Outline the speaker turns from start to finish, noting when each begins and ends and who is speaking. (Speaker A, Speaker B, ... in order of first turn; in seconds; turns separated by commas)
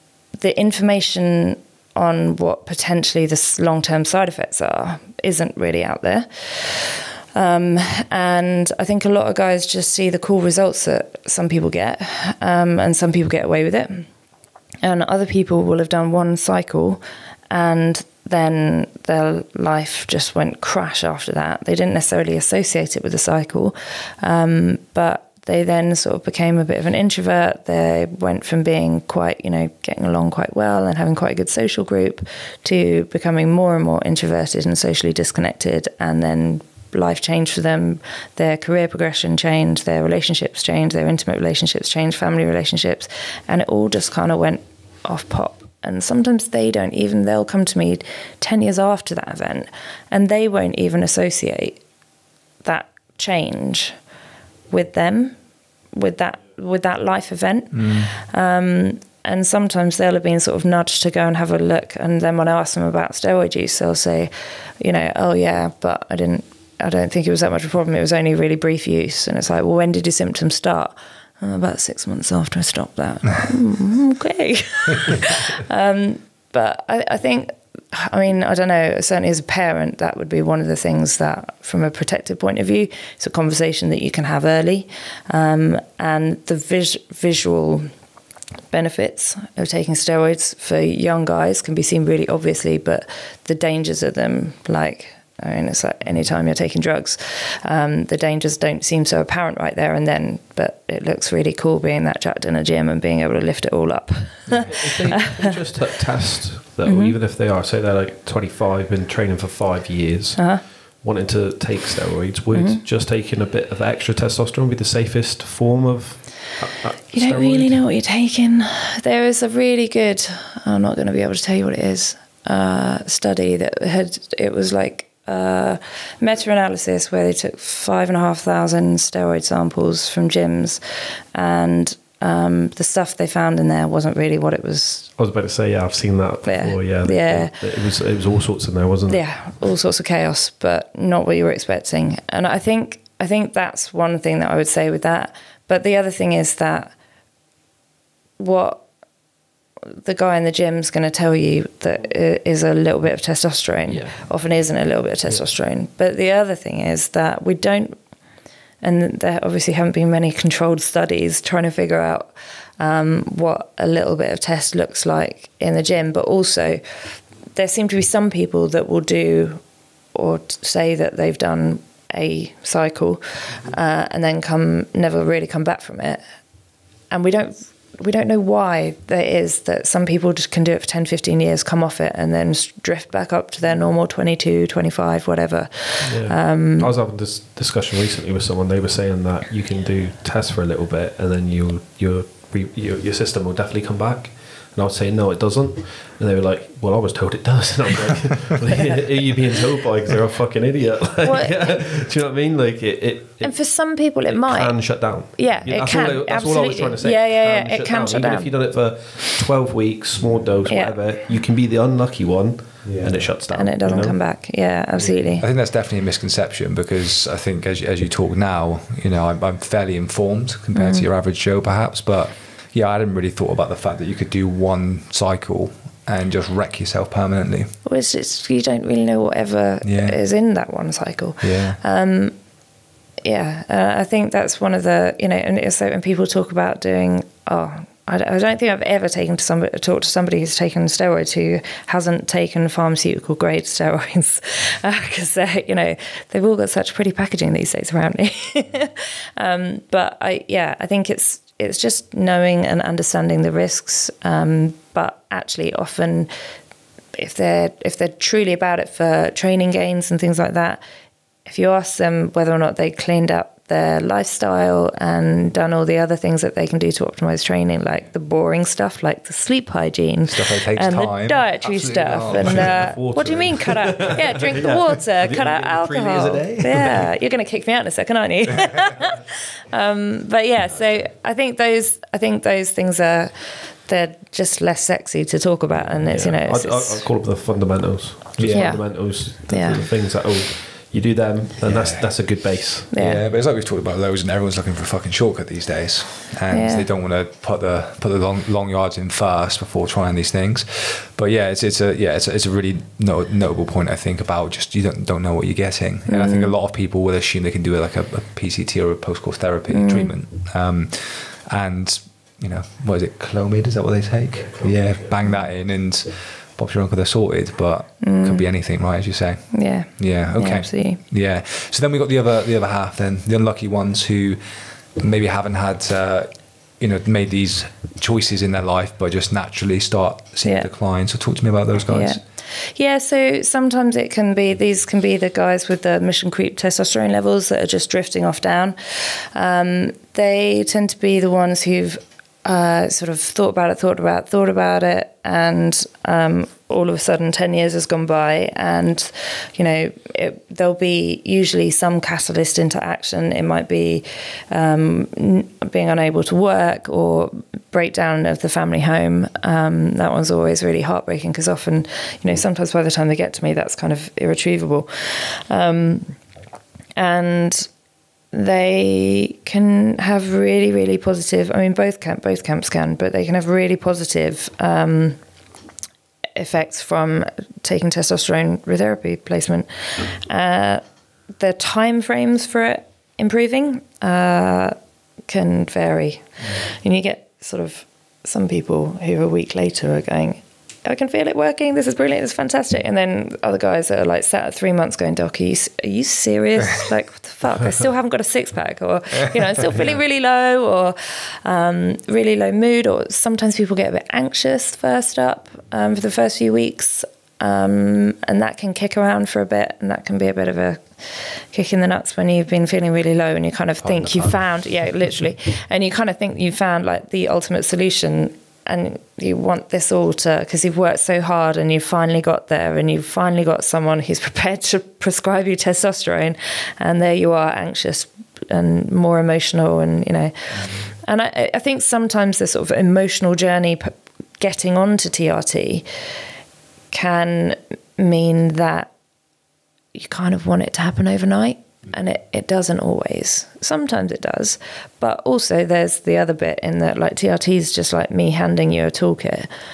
Speaker A: 0.4-14.1, Speaker A: 14.8-51.8, Speaker A: 52.6-54.0, Speaker A: 54.7-55.4, Speaker A: 55.9-87.9, Speaker B: 57.7-58.1, Speaker A: 88.7-105.4, Speaker B: 104.5-105.2, Speaker C: 104.7-117.8, Speaker A: 106.8-107.2, Speaker A: 110.4-110.6, Speaker A: 112.5-112.8, Speaker A: 117.1-130.8, Speaker A: 131.3-135.1, Speaker C: 135.2-139.2, Speaker A: 136.4-137.6, Speaker A: 139.1-146.9, Speaker A: 148.4-148.8, Speaker A: 149.9-158.0, Speaker C: 153.9-154.3, Speaker A: 158.8-169.6, Speaker A: 170.1-176.2, Speaker A: 177.1-186.9, Speaker C: 186.0-214.2, Speaker A: 201.2-201.7, Speaker A: 203.4-208.5, Speaker A: 210.7-211.0, Speaker B: 212.8-213.3, Speaker A: 213.5-215.4, Speaker B: 215.4-227.8, Speaker A: 220.7-221.1, Speaker A: 227.8-232.3, Speaker B: 229.8-230.2, Speaker B: 231.4-231.8, Speaker A: 233.2-256.3, Speaker A: 257.1-260.8, Speaker A: 261.4-283.3, Speaker B: 270.3-272.9, Speaker C: 272.2-277.1, Speaker A: 283.9-287.1, Speaker C: 286.0-292.9, Speaker B: 288.4-288.8, Speaker A: 288.5-289.8, Speaker B: 291.6-292.3, Speaker B: 292.9-324.4, Speaker A: 292.9-293.2, Speaker A: 296.5-296.9, Speaker A: 306.1-306.5, Speaker A: 309.7-310.1, Speaker C: 314.4-315.2, Speaker A: 318.0-318.5, Speaker A: 319.5-321.0, Speaker B: 324.9-332.2, Speaker A: 331.9-366.2, Speaker A: 367.0-367.7, Speaker A: 368.3-375.2, Speaker A: 376.4-380.8, Speaker A: 381.4-384.8, Speaker A: 385.3-435.9, Speaker B: 386.4-386.7, Speaker B: 413.8-414.4, Speaker B: 430.5-430.9, Speaker A: 436.9-438.9, Speaker A: 439.9-449.5